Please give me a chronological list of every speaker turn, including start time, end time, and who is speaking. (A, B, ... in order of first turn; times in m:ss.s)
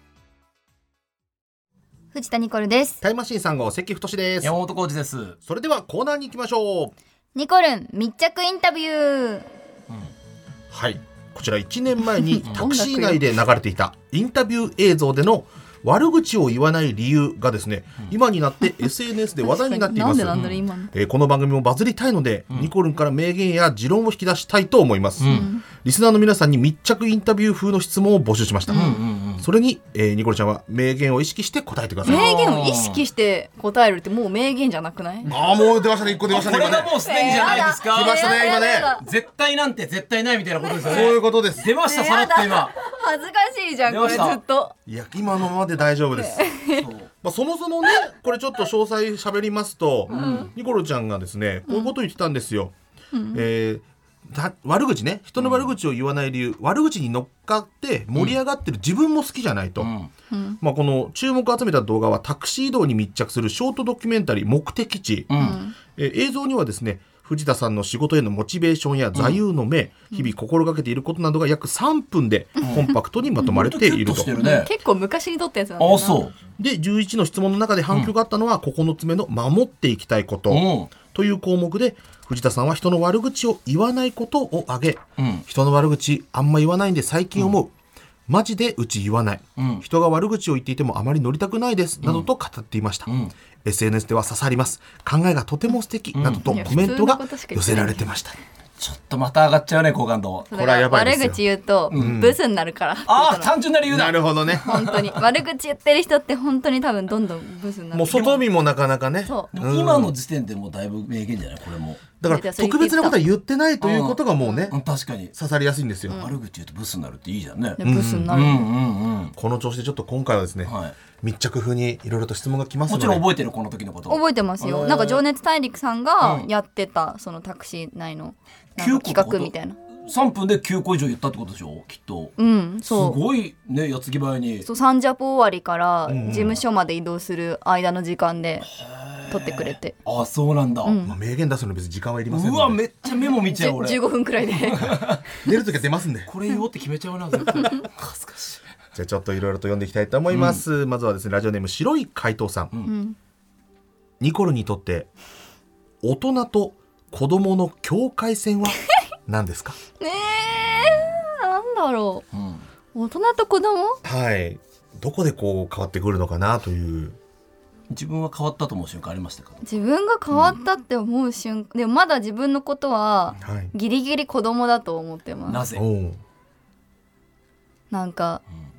0:02.1-0:03.0 A
0:03.0-0:04.5 B
0:04.4-0:05.4 C
0:05.4-0:06.9 B
0:07.3-0:09.5 A
0:10.7-0:32.3 B
0:12.2-0:13.2 A
0:19.4-0:20.9 A
0:20.3-0:20.6 C
0:25.2-0:25.5 C
0:25.2-0:25.6 A
0:28.7-0:29.0 A
0:28.7-0:29.4 C
0:32.0-0:33.0 C
0:32.0-0:35.3 A
0:35.2-0:38.9 B
0:36.2-0:42.8 C
0:37.0-0:39.0 A
0:40.8-0:41.7 B
0:41.8-0:44.7 A
0:43.9-0:44.4 C
0:44.9-0:46.5 B
0:46.1-0:46.8 A
0:46.7-0:47.1 C
0:47.2-0:52.7 B
0:50.1-0:50.5 C
0:50.1-0:50.5 A
0:51.7-0:51.9 A
0:53.1-0:53.4 A
0:53.3-0:59.9 B
0:55.4-0:55.7 C
0:59.8-1:00.1 C
1:00.3-1:00.6 A
1:00.6-1:14.3 B
1:05.3-1:05.6 C
1:05.4-1:05.7 A
1:09.1-1:09.4 C
1:12.6-1:14.7 C
1:14.4-1:16.3 A
1:15.8-1:16.3 C
1:16.6-1:27.7 B
1:20.5-1:20.9 C
1:25.2-1:25.4 C
1:28.3-1:33.1 B
1:29.6-1:29.8 C
1:32.0-1:32.3 C
1:33.0-1:33.3 C
1:33.6-1:38.4 B
1:36.1-1:36.7 C
1:36.4-1:38.0 A
1:38.8-1:40.5 C
1:40.5-1:43.5 A
1:40.5-1:42.4 B
1:41.9-1:42.2 C
1:43.1-1:45.2 C
1:43.9-1:44.7 B
1:44.5-1:48.4 A
1:47.9-1:50.1 B
1:48.1-1:48.4 C
1:49.2-1:49.5 A
1:49.5-1:52.1 C
1:52.2-1:54.8 B
1:52.2-1:53.2 A
1:53.8-1:55.3 C
1:55.3-1:56.3 B
1:56.1-1:59.3 C
1:57.8-1:58.7 A
1:57.8-1:58.3 B
1:59.4-2:03.2 B
2:00.6-2:01.0 C
2:02.9-2:05.2 C
2:04.1-2:09.8 A
2:06.2-2:06.5 C
2:08.8-2:14.7 C
2:12.4-2:13.2 A
2:14.6-2:18.7 A
2:16.1-2:16.6 B
2:18.6-2:20.9 C
2:19.3-2:20.0 A
2:20.8-2:21.1 A
2:21.0-2:22.8 B
2:22.3-2:25.3 C
2:23.0-2:25.0 A
2:25.4-2:26.3 B
2:26.2-2:28.6 C
2:28.9-2:32.7 B
2:30.3-2:30.6 C
2:32.8-2:33.2 A
2:34.2-2:35.1 B
2:36.0-2:39.8 B
2:40.0-2:42.2 A
2:42.3-2:42.6 C
2:42.9-2:44.0 A
2:44.0-2:47.2 B
2:47.9-2:49.6 C
2:49.6-2:55.6 A
2:53.4-2:53.7 B
2:55.5-2:55.8 C
2:55.7-2:56.2 B
2:57.9-2:58.4 A